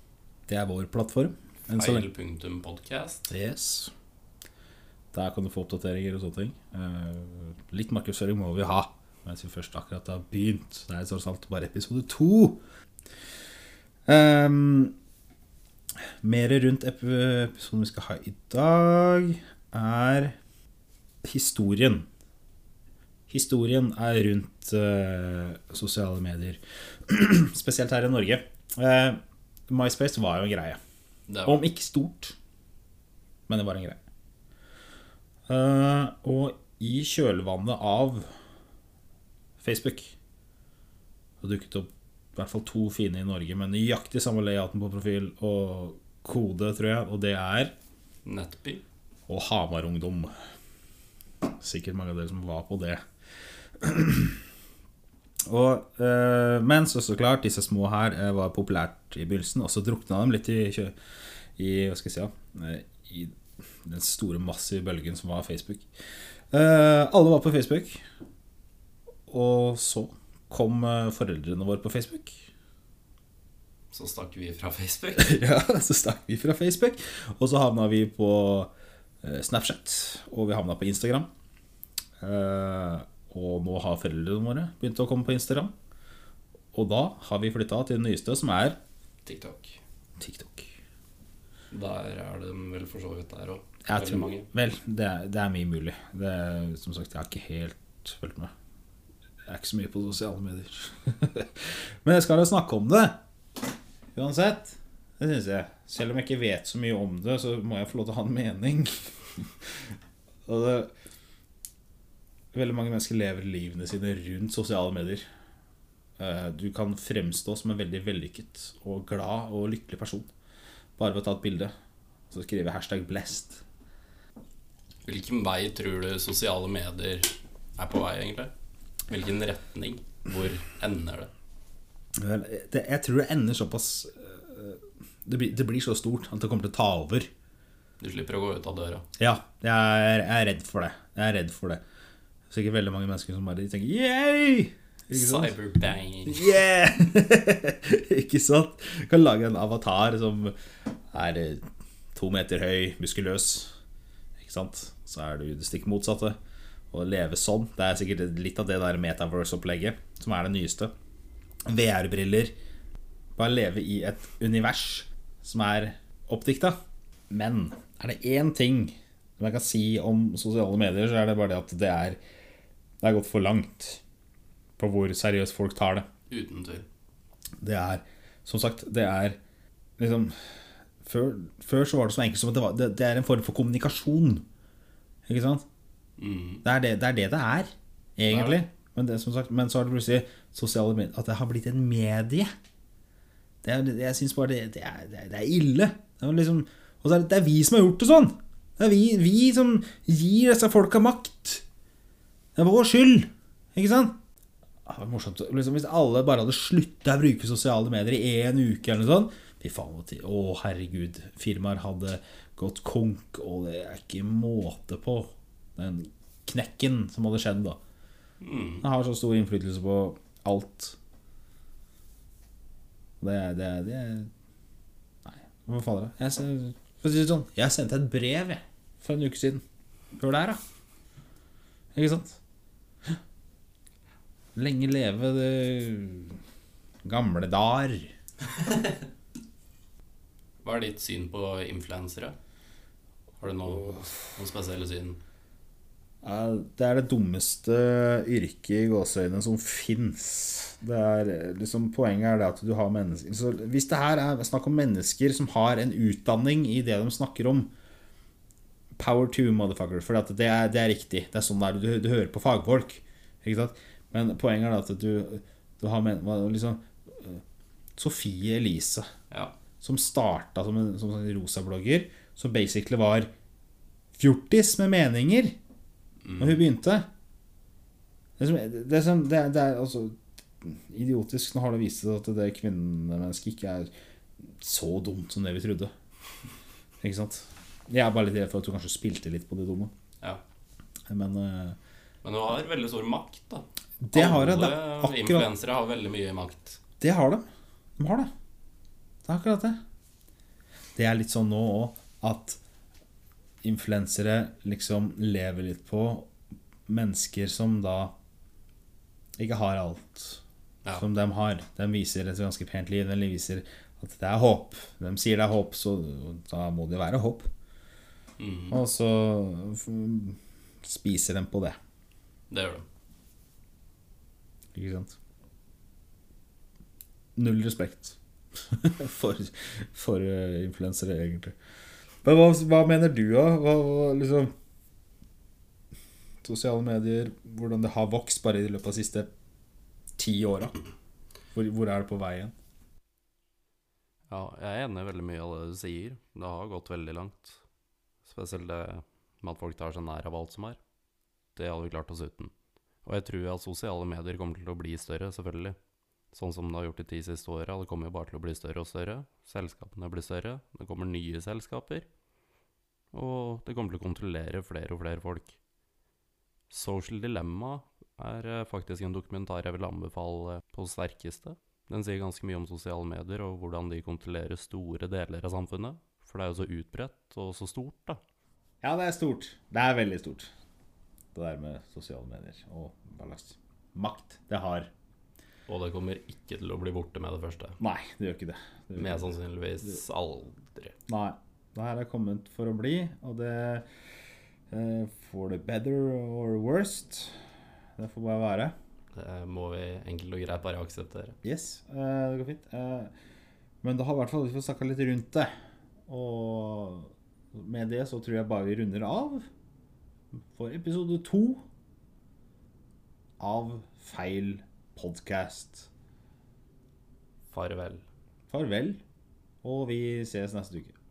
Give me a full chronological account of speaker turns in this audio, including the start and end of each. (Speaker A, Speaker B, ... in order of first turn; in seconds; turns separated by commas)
Speaker A: 0.5-2.1, Speaker B: 1.7-3.3, Speaker A: 3.3-3.9, Speaker A: 5.1-12.6, Speaker A: 14.1-14.9, Speaker A: 16.2-20.4, Speaker A: 21.2-22.1, Speaker A: 23.3-30.8, Speaker B: 31.3-31.6, Speaker A: 31.4-32.4, Speaker A: 33.5-34.0, Speaker A: 35.5-38.3, Speaker A: 39.6-40.1, Speaker A: 41.4-47.7, Speaker B: 48.2-48.8, Speaker A: 49.3-50.3, Speaker A: 51.6-53.0, Speaker A: 53.8-54.4, Speaker A: 55.5-60.9, Speaker A: 61.6-65.9, Speaker A: 66.5-68.0, Speaker A: 69.3-72.5, Speaker B: 73.9-75.4, Speaker A: 75.2-78.7, Speaker A: 79.2-81.3, Speaker A: 82.2-85.7, Speaker A: 86.7-88.8, Speaker B: 89.2-89.8, Speaker A: 90.2-90.7, Speaker B: 91.7-94.5, Speaker A: 93.8-98.5, Speaker A: 99.5-103.2, Speaker A: 104.1-109.9, Speaker A: 110.5-110.9, Speaker A: 112.5-115.2, Speaker A: 116.2-120.3, Speaker A: 121.0-121.7, Speaker A: 122.3-123.6, Speaker B: 125.0-128.5, Speaker B: 129.1-131.3, Speaker A: 132.2-137.3, Speaker B: 138.0-139.1, Speaker A: 139.2-141.8, Speaker A: 142.5-145.6, Speaker B: 145.1-146.5, Speaker A: 146.2-150.5, Speaker A: 151.1-153.7, Speaker A: 154.4-156.4, Speaker A: 156.9-160.9, Speaker A: 161.7-162.5, Speaker A: 163.3-166.8, Speaker A: 167.3-172.2, Speaker A: 173.0-174.0, Speaker A: 174.8-176.1, Speaker B: 176.3-176.8, Speaker A: 177.6-179.4, Speaker A: 180.0-184.4, Speaker A: 185.3-185.6, Speaker B: 186.2-186.6, Speaker A: 186.6-192.5, Speaker B: 188.3-188.6, Speaker A: 193.6-201.6, Speaker A: 202.6-204.2, Speaker A: 204.8-217.8, Speaker B: 218.4-218.8, Speaker A: 218.8-221.0, Speaker A: 223.2-224.3, Speaker A: 225.2-229.6, Speaker A: 230.2-230.6, Speaker A: 231.9-232.4, Speaker A: 234.6-236.4, Speaker A: 237.0-238.1, Speaker B: 238.6-238.9, Speaker B: 240.6-242.3, Speaker B: 243.4-245.2, Speaker A: 243.7-244.0, Speaker A: 246.2-257.7, Speaker A: 259.0-267.4, Speaker A: 268.0-269.1, Speaker A: 269.8-273.3, Speaker A: 274.1-275.6, Speaker B: 276.2-276.6, Speaker A: 276.4-277.1, Speaker A: 278.4-283.9, Speaker A: 284.5-285.9, Speaker A: 287.0-289.9, Speaker A: 291.1-291.8, Speaker B: 292.2-296.8, Speaker A: 294.0-295.5, Speaker A: 297.0-297.4, Speaker A: 298.0-298.3, Speaker A: 299.2-299.8, Speaker A: 300.9-302.6, Speaker A: 303.6-306.3, Speaker A: 306.9-308.1, Speaker A: 309.4-310.4, Speaker A: 310.9-317.5, Speaker B: 318.4-318.8, Speaker A: 318.7-321.8, Speaker B: 322.5-322.8, Speaker A: 324.7-325.1, Speaker A: 327.4-328.2, Speaker A: 328.7-331.5, Speaker A: 332.2-334.5, Speaker A: 336.4-339.3, Speaker A: 340.2-340.8, Speaker A: 341.5-342.5, Speaker B: 344.3-347.6, Speaker B: 348.2-350.8, Speaker B: 351.5-352.5, Speaker B: 353.0-355.8, Speaker B: 356.3-362.1, Speaker B: 363.1-365.6, Speaker B: 366.7-378.2, Speaker A: 378.8-380.5, Speaker A: 381.3-384.9, Speaker B: 385.7-387.8, Speaker A: 387.8-389.3, Speaker B: 388.9-390.9, Speaker A: 391.1-393.9, Speaker A: 394.7-397.4, Speaker A: 398.0-398.7, Speaker B: 399.1-401.4, Speaker A: 401.4-403.1, Speaker A: 403.8-405.5, Speaker A: 406.1-409.5, Speaker A: 410.5-411.6, Speaker A: 413.4-415.9, Speaker B: 417.5-418.0, Speaker A: 418.5-419.0, Speaker A: 419.6-420.9